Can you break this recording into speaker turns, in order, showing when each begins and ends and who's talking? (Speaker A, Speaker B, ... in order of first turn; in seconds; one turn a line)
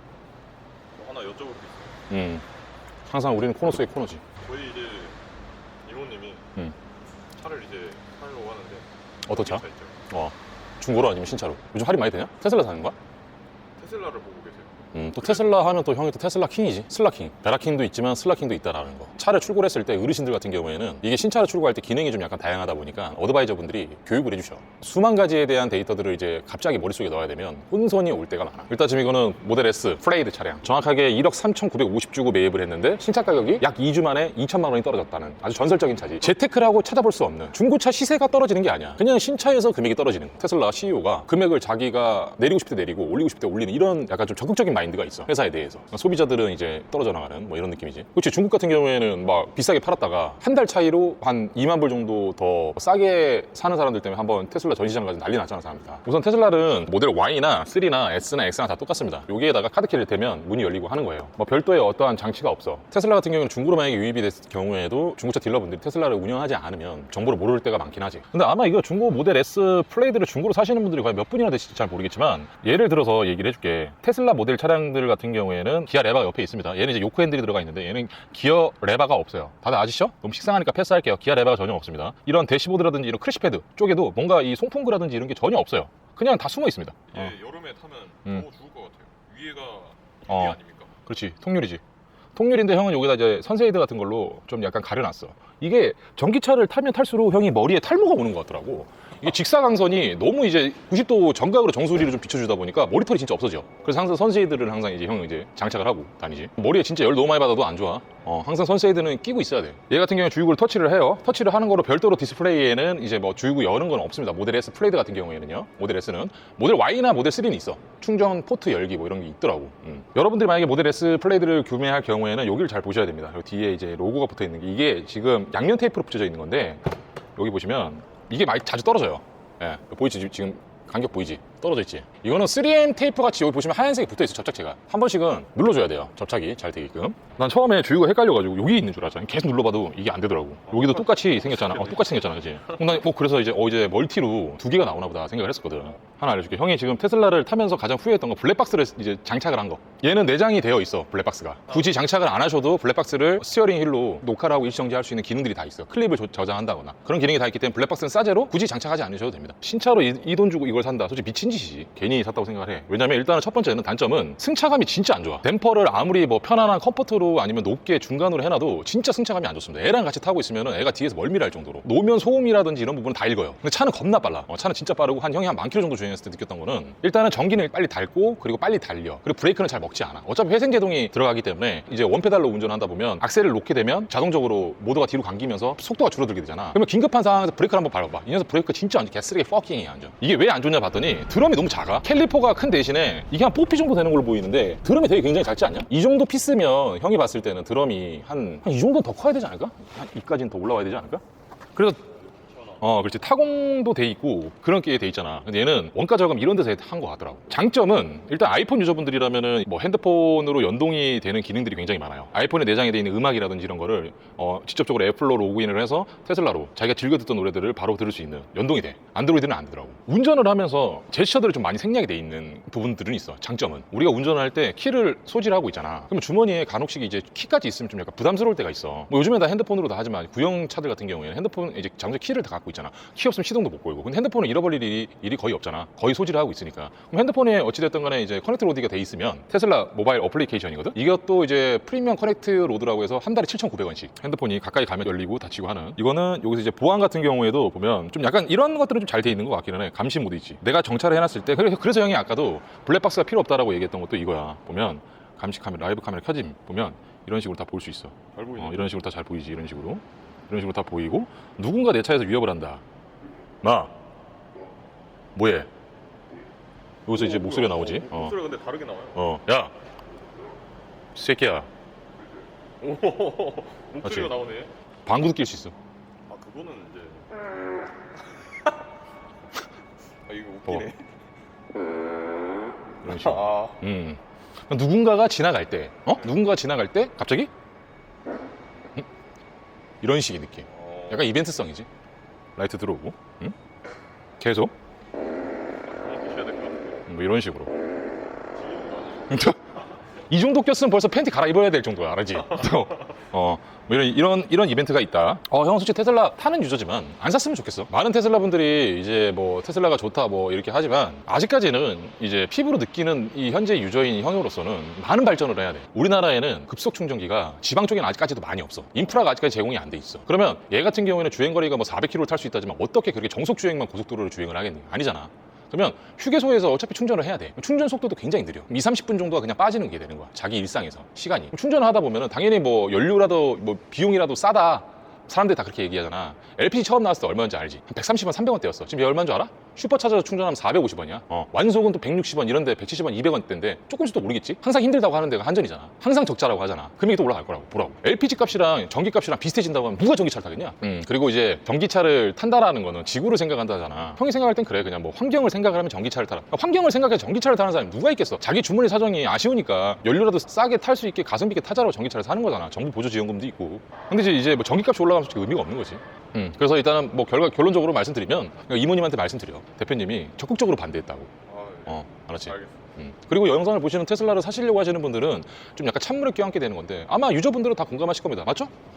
Speaker A: 0.9-2.0
Speaker B: 2.1-2.4
Speaker B: 3.0-4.2
Speaker A: 4.4-5.2
Speaker A: 5.8-6.4
Speaker A: 7.3-10.0
Speaker B: 9.3-12.9
Speaker A: 13.8-15.4
Speaker B: 14.9-87.3
Speaker A: 87.1-90.9
Speaker B: 90.3-91.8
Speaker B: 92.3-201.2
Speaker A: 140.7-142.2
Speaker B: 201.7-202.0
Speaker B: 202.8-262.8
Speaker A: 258.3-258.9
Speaker B: 263.6-263.9
Speaker B: 265.3-265.7
Speaker B: 267.1-268.4
Speaker A: 267.2-269.2
Speaker B: 269.1-269.7
Speaker B: 271.1-271.7
Speaker A: 272.8-274.7
Speaker B: 274.0-274.3
Speaker B: 275.0-275.7
Speaker A: 276.3-277.3
Speaker A: 280.2-281.1
Speaker B: 283.0-287.5
Speaker A: 283.2-283.8
Speaker B: 290.0-291.9
Speaker A: 290.7-291.3
Speaker B: 292.6-293.5
Speaker B: 294.4-294.7
Speaker A: 295.8-297.0
Speaker B: 297.1-297.7
Speaker A: 298.6-299.3
Speaker B: 299.3-299.6
Speaker B: 300.3-371.3
Speaker A: 371.4-372.8
Speaker B: 371.9-378.7